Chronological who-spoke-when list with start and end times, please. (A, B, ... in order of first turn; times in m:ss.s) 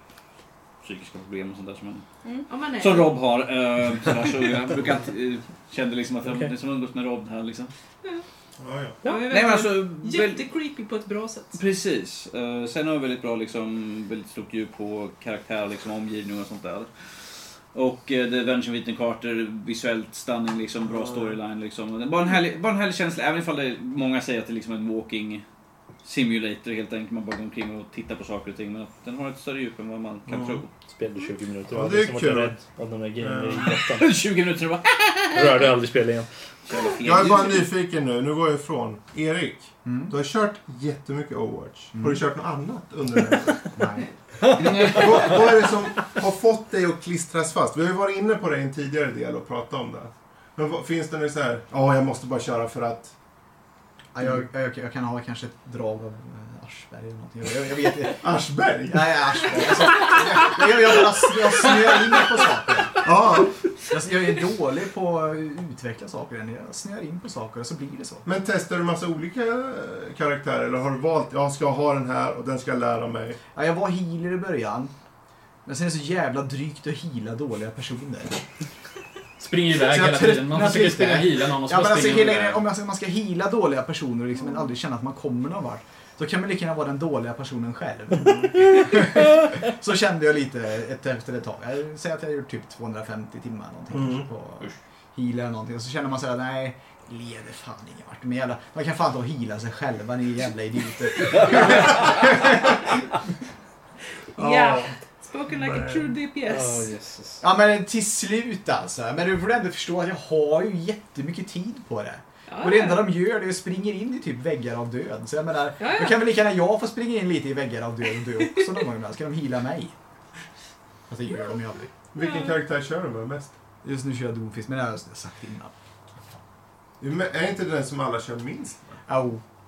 0:00.8-0:02.0 A
0:02.5-0:03.2 B
0:02.8-0:07.7 A
0:06.2-0:06.5 C
0:08.6-0:09.0 D
0:09.0-0:11.6 B
0:09.0-0:09.3 C
0:09.3-0:10.5 A
0:11.5-0:16.9 A
0:17.7-0:25.4 A
0:20.8-0:21.4 D
0:26.0-0:30.7 A
0:30.3-0:30.6 D
0:30.9-0:34.1 C
0:31.7-0:32.6 D
0:33.2-0:33.8 D
0:33.7-0:35.7 A
0:35.3-0:36.3 C
0:36.7-0:37.7 A
0:37.0-0:43.8 D
0:39.8-0:40.1 E
0:41.9-0:42.2 E
0:43.7-0:44.1 E
0:44.6-0:45.5 F
0:44.6-0:53.1 D
0:54.1-1:03.3 E
0:58.2-0:59.7 D
1:03.0-1:03.6 D
1:03.9-1:08.2 E
1:08.2-1:13.4 D
1:13.5-1:14.9 E
1:15.6-1:18.4 E
1:19.4-1:22.7 F
1:19.7-1:43.0 E
1:28.2-1:28.5 D
1:33.9-1:34.3 D
1:44.4-1:46.9 B
1:44.4-1:44.9 D
1:45.5-1:46.1 D
1:46.4-1:47.4 C
1:47.4-1:59.9 E
1:52.5-1:53.1 B
1:55.8-1:56.2 B
2:01.1-2:01.9 E
2:02.1-2:03.5 D
2:02.2-2:02.6 B
2:03.8-2:05.7 E
2:07.0-2:09.0 D
2:09.1-2:09.4 E